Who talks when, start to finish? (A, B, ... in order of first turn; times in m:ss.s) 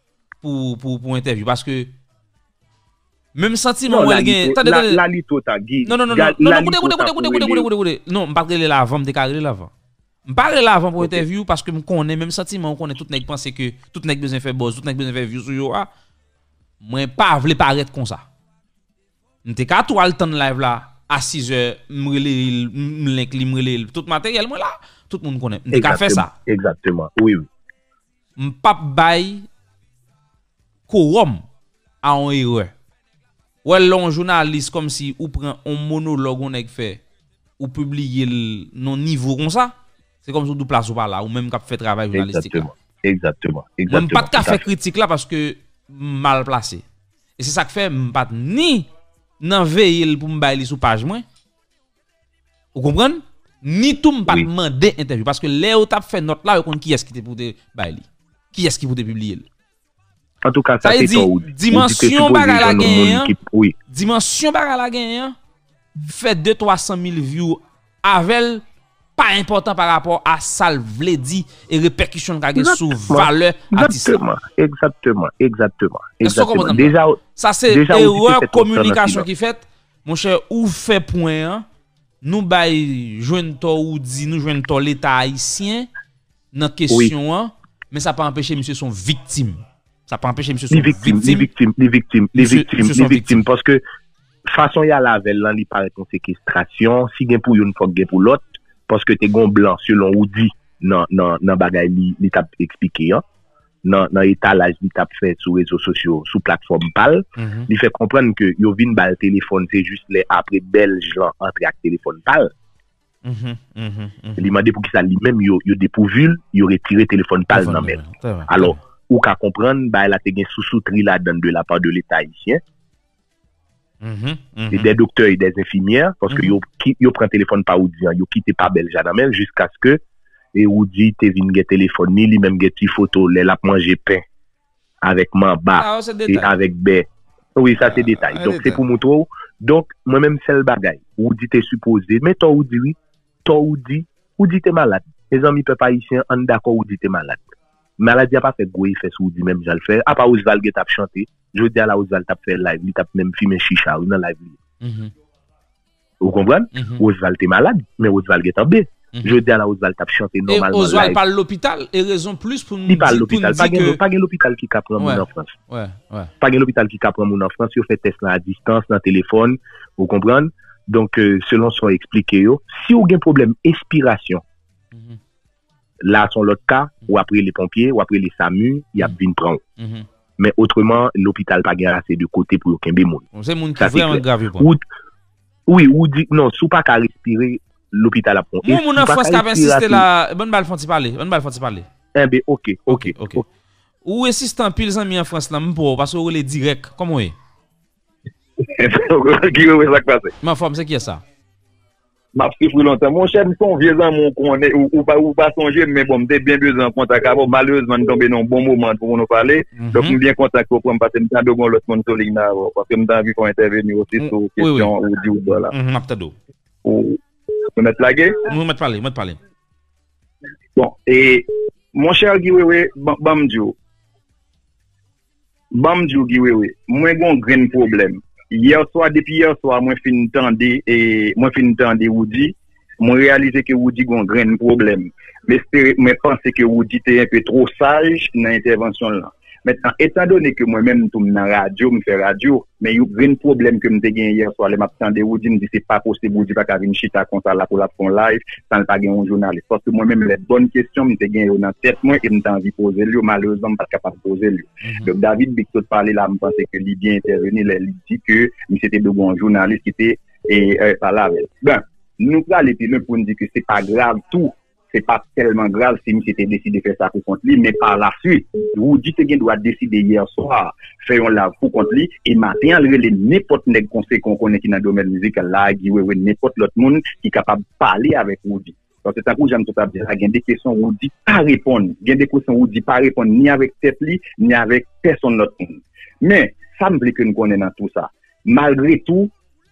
0:00.4-0:01.9 A
0:03.3-0:05.0 A
0:03.9-0:07.7 B
0:05.8-0:09.7 A
0:10.2-0:15.9 A
0:11.0-0:11.2 B
0:16.8-0:18.2 A
0:19.4-0:26.3 A
0:25.7-0:27.5 B
0:28.4-0:29.5 A
0:30.9-0:31.4 A
0:32.0-0:32.7 A
0:33.6-0:37.0 A
0:37.6-0:39.7 A
0:40.2-0:42.7 A
0:42.1-0:44.6 B
0:43.9-0:46.8 A
0:47.4-0:48.9 A
0:49.4-0:51.2 A
0:52.7-0:59.5 A
1:00.4-1:03.7 B
1:00.8-1:03.3 A
1:03.9-1:05.3 A
1:06.0-1:08.6 A
1:09.2-1:14.2 A
1:12.6-1:19.3 B
1:16.2-1:21.6 A
1:22.2-1:25.9 A
1:26.5-1:31.5 A
1:30.7-1:33.8 B
1:32.4-1:33.4 A
1:34.4-1:43.2 B
1:43.8-1:52.5 B
1:47.4-1:47.7 A
1:53.2-1:54.5 A
1:54.4-2:02.6 B
1:57.5-1:58.8 A
2:04.0-2:04.9 A
2:04.7-2:10.0 B
2:06.3-2:06.6 A
2:10.5-2:14.2 B
2:15.0-2:27.5 B
2:15.8-2:16.5 A
2:17.8-2:18.8 A
2:28.0-2:34.6 B
2:34.8-2:35.1 A
2:36.2-2:41.2 B
2:36.7-2:37.0 A
2:39.1-2:39.4 A
2:40.5-2:44.0 A
2:42.9-2:45.6 B
2:45.0-2:46.3 A
2:46.4-2:54.4 B
2:54.9-2:55.2 A
2:56.0-2:59.6 B
2:59.8-3:00.0 A
3:00.4-3:03.2 B
3:03.3-3:04.7 A
3:03.8-3:04.8 B
3:05.7-3:10.0 B
3:08.6-3:11.9 A
3:12.1-3:13.4 B
3:12.9-3:13.4 A
3:14.0-3:17.3 A
3:18.6-3:20.3 C
3:20.4-3:21.2 A
3:22.3-3:35.7 C
3:29.7-3:30.2 A
3:34.2-3:34.9 A
3:35.7-3:36.3 A
3:36.8-3:37.2 C
3:37.8-3:38.4 C
3:38.4-3:39.4 A
3:40.8-3:43.8 C
3:45.7-4:49.3 C
4:14.8-4:15.1 A